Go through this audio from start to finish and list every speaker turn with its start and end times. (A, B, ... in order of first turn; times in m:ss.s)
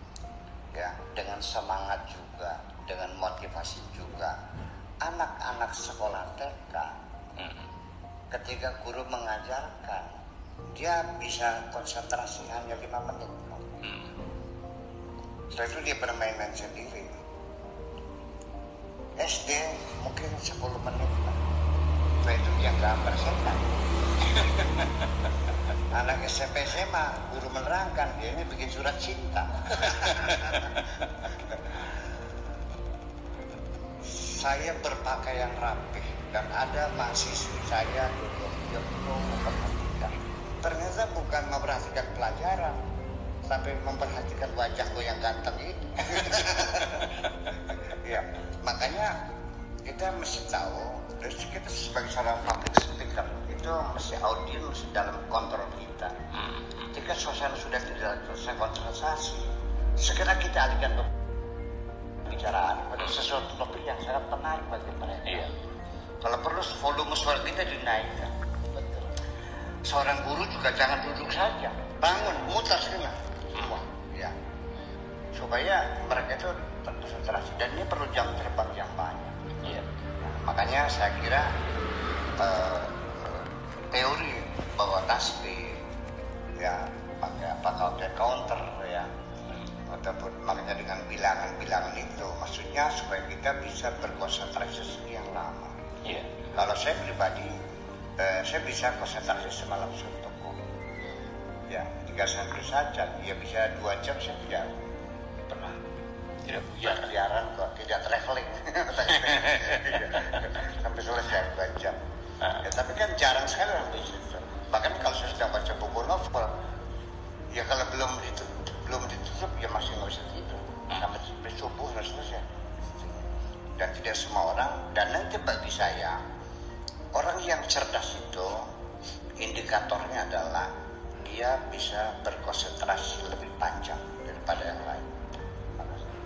0:00.7-0:04.4 A
0:05.0-0:07.0 A
0:07.4-0:07.7 B
0:08.3-0:10.1 A
0:10.7-0:13.8 A
0:13.8-0:14.1 B
0:15.5-0:17.1 A
0:19.2-0:21.4 A
0:22.2-0:23.7 A
0:25.9-0:31.9 A
0:34.0-0:42.8 A
0:43.4-0:49.2 A
0:49.8-0:56.1 A
0:56.3-0:56.9 B
0:56.9-1:01.1 A
1:02.2-1:05.6 A
1:05.3-1:05.5 B
1:06.2-1:09.2 A
1:09.8-1:14.4 A
1:15.3-1:19.4 A
1:19.6-1:19.9 B
1:20.2-1:21.5 A
1:22.4-1:25.8 A
1:26.6-1:29.1 A
1:29.9-1:35.8 A
1:36.0-1:36.3 B
1:36.5-1:37.5 A
1:38.2-1:40.6 A
1:41.7-1:44.7 A
1:45.5-1:45.8 A
1:46.4-1:47.0 B
1:46.8-1:56.6 A
1:49.3-1:49.6 B
1:50.1-1:50.4 B
1:57.5-2:03.2 A
2:03.8-2:06.2 A
2:07.1-2:08.7 A
2:09.4-2:15.2 A
2:15.8-2:16.1 A